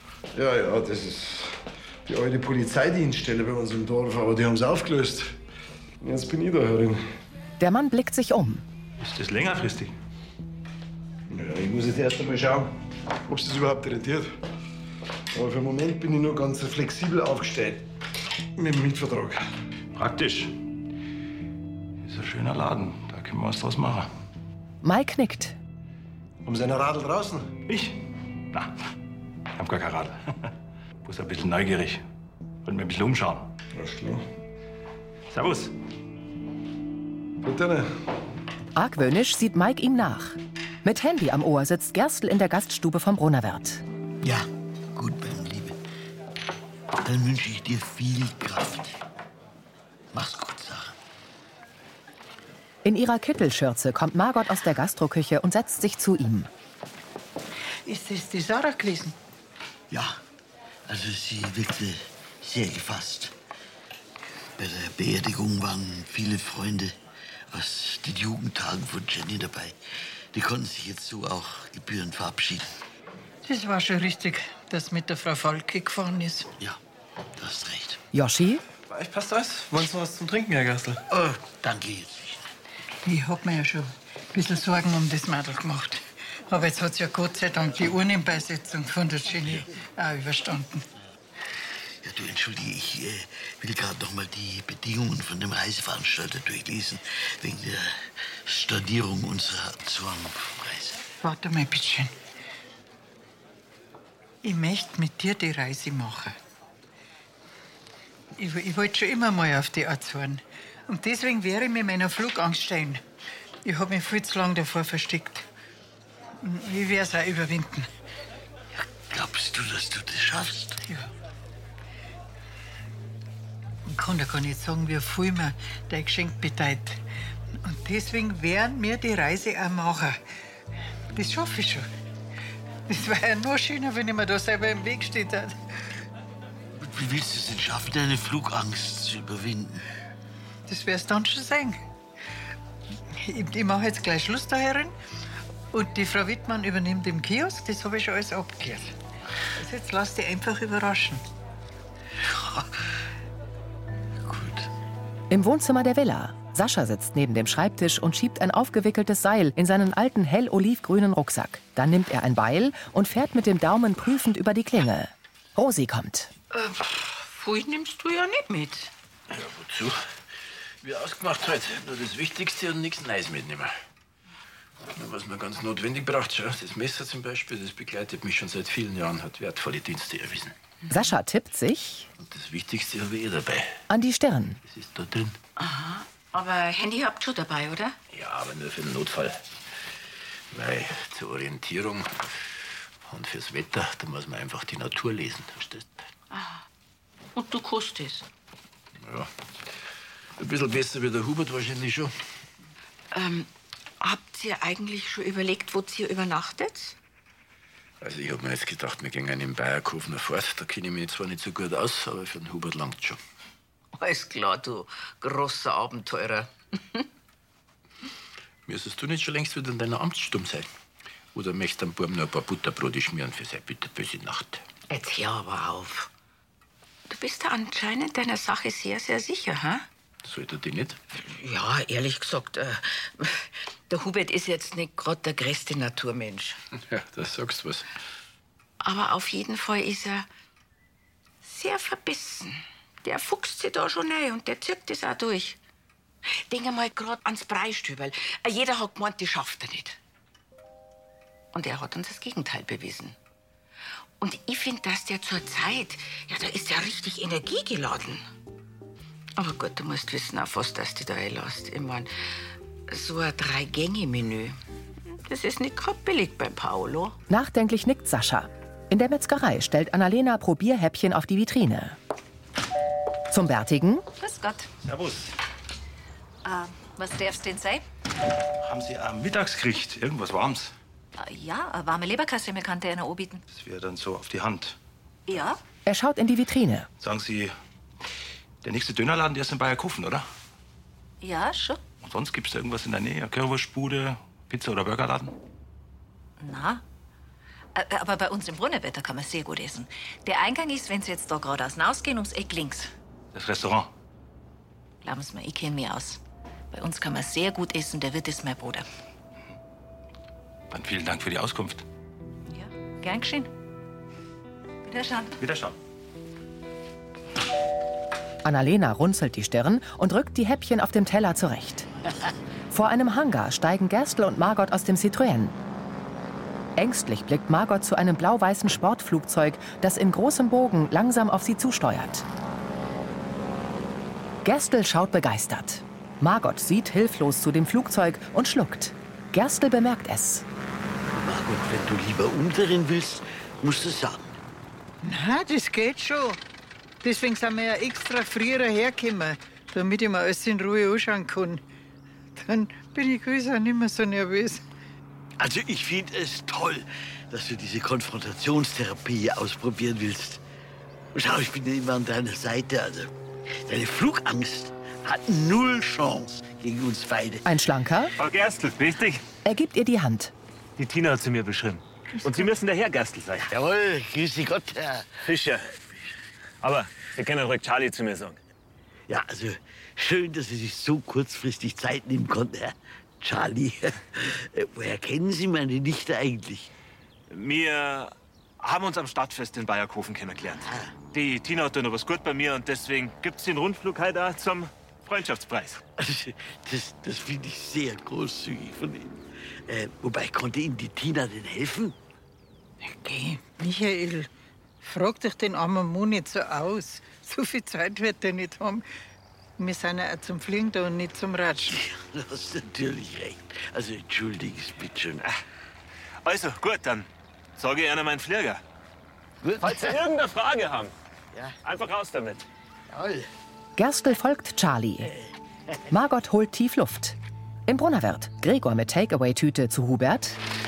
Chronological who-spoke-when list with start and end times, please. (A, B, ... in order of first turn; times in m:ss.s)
0:00.3-0:05.4 A
0:06.0-0:07.0 A
0:07.6-0:08.6 B
0:09.0-0:09.9 C
0:11.3-0:12.7 A
0:13.3-0:14.4 A
0:15.3-0:17.8 A
0:18.6-0:19.4 A
0:20.0-0:20.5 C
0:22.0-0:24.1 C
0:24.8-0:25.6 B
0:26.4-0:27.5 A
0:27.7-0:28.0 C
0:29.6-0:30.5 C
0:31.0-0:32.0 C
0:32.6-0:33.5 C
0:33.7-0:34.2 A
0:35.3-0:35.7 C
0:37.4-0:37.9 A
0:38.8-0:43.8 B
0:44.2-0:45.8 D
0:47.0-0:49.0 D
0:50.1-0:51.0 D
0:52.8-0:56.5 B
0:57.9-0:59.2 E
0:59.9-1:00.2 D
1:00.9-1:03.3 D
1:04.6-1:07.0 D
1:07.5-1:09.8 D
1:10.3-1:12.8 D
1:13.4-1:16.5 E
1:17.4-1:18.0 D
1:18.1-1:18.6 B
1:18.9-1:21.0 F
1:21.1-1:22.5 D
1:23.0-1:30.9 E
1:32.0-1:41.0 D
1:41.2-1:42.1 E
1:44.4-1:46.4 E
1:48.4-1:53.0 E
1:53.6-1:55.5 E
1:56.4-1:57.9 E
1:58.8-2:00.8 D
2:03.9-2:07.0 E
2:07.6-2:10.2 E
2:11.1-2:11.9 E
2:12.9-2:15.6 E
2:16.8-2:19.9 D
2:20.7-2:21.8 E
2:23.1-2:24.9 E
2:25.7-2:28.9 E
2:29.6-2:31.2 E
2:34.3-2:34.7 D
2:35.3-2:46.3 B
2:46.5-2:48.9 G
2:49.3-2:50.0 H
2:50.8-2:53.7 H
2:54.9-3:00.6 H
3:00.9-3:02.1 B
3:02.2-3:03.8 H
3:03.9-3:04.6 B
3:04.6-3:05.4 H
3:05.6-3:08.0 G
3:08.1-3:09.4 H
3:10.5-3:12.4 H
3:13.0-3:16.0 H
3:16.3-3:16.6 G
3:17.4-3:18.2 G
3:19.0-3:19.3 H
3:20.4-3:22.1 H
3:23.1-3:23.5 G
3:24.0-3:27.0 G
3:28.0-3:33.2 H
3:33.9-3:37.0 G
3:38.7-3:40.7 H
3:41.3-3:44.6 H
3:44.9-3:46.1 G
3:47.1-3:49.9 G
3:50.2-3:51.0 H
3:51.1-3:56.6 G
3:56.8-3:57.9 H
3:58.8-4:00.3 G
4:01.4-4:05.6 G
4:06.5-4:10.0 G
4:11.5-4:13.2 G
4:14.2-4:18.2 G
4:19.4-4:22.1 G
4:22.9-4:24.6 G
4:25.1-4:27.2 G
4:27.3-4:32.0 B
4:33.3-4:34.1 B
4:34.2-4:34.7 I
4:34.8-4:35.3 C
4:36.4-4:37.8 I
4:38.6-4:40.8 C
4:41.2-4:43.4 I
4:43.5-4:44.8 C
4:45.3-4:45.6 I
4:45.9-4:46.9 B
4:47.0-4:47.5 C
4:48.6-4:50.2 C
4:51.2-4:51.8 I
4:52.0-4:55.3 C
4:56.4-4:56.8 I
4:57.8-5:02.9 I
5:03.3-5:03.9 C
5:05.0-5:06.2 I
5:06.7-5:08.8 I
5:10.7-5:11.8 C
5:12.5-5:13.5 I
5:14.9-5:15.3 I
5:15.4-5:15.8 C
5:18.4-5:21.9 B
5:22.7-5:25.6 B
5:26.8-5:32.3 B
5:34.4-5:40.4 B
5:41.1-5:44.4 D
5:45.0-5:46.4 E
5:47.0-5:51.6 E
5:52.4-5:54.6 E
5:55.4-6:00.4 D
6:01.2-6:03.1 D
6:03.6-6:07.4 D
6:07.4-6:08.1 B
6:08.2-6:09.2 J
6:09.4-6:10.3 B
6:10.8-6:13.5 J
6:13.5-6:15.2 D
6:15.2-6:15.7 J
6:16.6-6:18.4 J
6:19.1-6:26.7 D
6:27.3-6:35.8 J
6:30.6-6:31.0 D
6:36.0-6:42.0 D
6:42.8-6:44.3 E
6:44.8-6:48.8 E
6:49.6-6:51.8 E
6:51.8-6:55.2 D
6:56.2-6:58.6 J
6:59.4-7:00.0 D
6:59.6-7:00.9 J
7:01.6-7:02.4 J
7:02.9-7:03.3 D
7:03.8-7:05.1 B
7:05.9-7:10.4 B